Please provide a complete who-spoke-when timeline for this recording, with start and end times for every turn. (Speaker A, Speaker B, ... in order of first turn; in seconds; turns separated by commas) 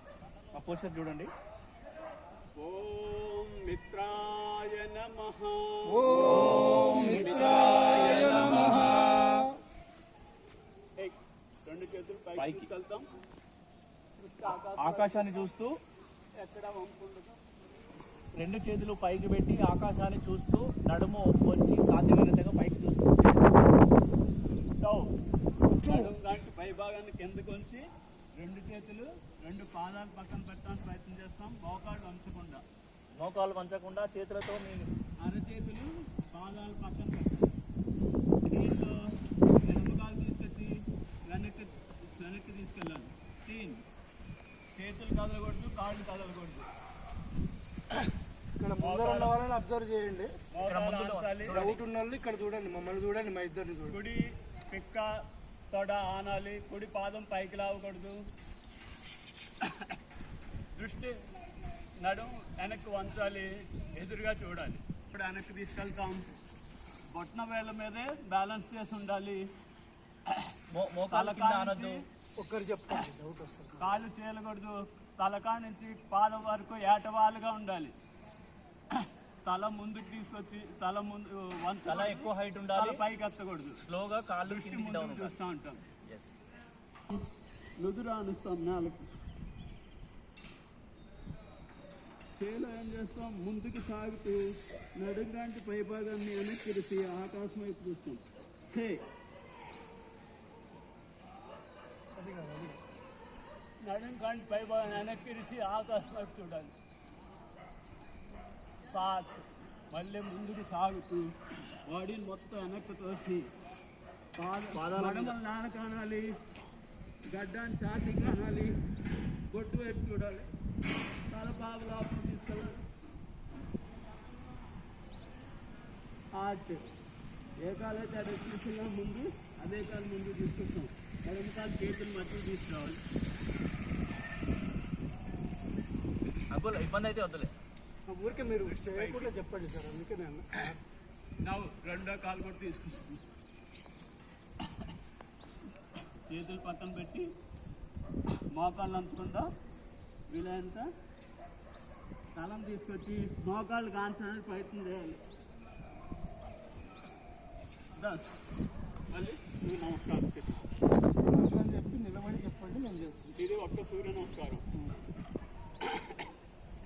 Speaker A: 0.5-1.3, Speaker B: 2.5-9.3, Speaker A: 6.2-8.6, Speaker B: 11.0-13.1, Speaker A: 12.3-12.7, Speaker B: 14.2-15.5, Speaker A: 14.8-15.7, Speaker B: 16.4-17.4, Speaker A: 18.4-23.6, Speaker B: 24.8-25.1, Speaker B: 25.8-27.8, Speaker B: 28.4-32.6, Speaker A: 33.2-34.9, Speaker B: 35.2-37.5, Speaker B: 38.5-43.8, Speaker B: 44.7-46.7, Speaker C: 48.6-50.3, Speaker B: 48.8-49.3, Speaker B: 50.5-51.8, Speaker A: 50.6-51.8, Speaker C: 51.5-54.0, Speaker B: 53.9-58.2, Speaker B: 59.6-60.0, Speaker B: 60.7-61.2, Speaker B: 62.0-66.2, Speaker B: 67.1-69.4, Speaker A: 70.7-72.0, Speaker B: 71.1-72.0, Speaker C: 72.4-74.0, Speaker B: 73.8-77.9, Speaker B: 78.9-83.8, Speaker A: 81.8-83.0, Speaker A: 83.8-85.3, Speaker B: 84.4-85.8, Speaker A: 86.0-86.3, Speaker B: 87.8-89.1, Speaker B: 92.3-99.0, Speaker C: 102.1-102.8, Speaker B: 103.8-106.7, Speaker B: 108.8-111.3, Speaker B: 111.8-113.5, Speaker B: 114.3-116.4, Speaker A: 114.7-115.4, Speaker B: 117.3-118.7, Speaker B: 119.5-120.5, Speaker B: 121.3-122.8, Speaker B: 126.3-126.8, Speaker B: 127.6-133.0, Speaker A: 136.5-137.5, Speaker C: 138.1-140.8, Speaker B: 138.5-139.3, Speaker B: 141.4-143.2, Speaker B: 146.3-147.3, Speaker B: 148.5-149.5, Speaker B: 150.3-150.9, Speaker B: 152.3-155.2, Speaker B: 158.0-158.3, Speaker B: 159.1-160.6, Speaker C: 161.3-163.4, Speaker B: 163.3-164.7, Speaker B: 165.8-166.2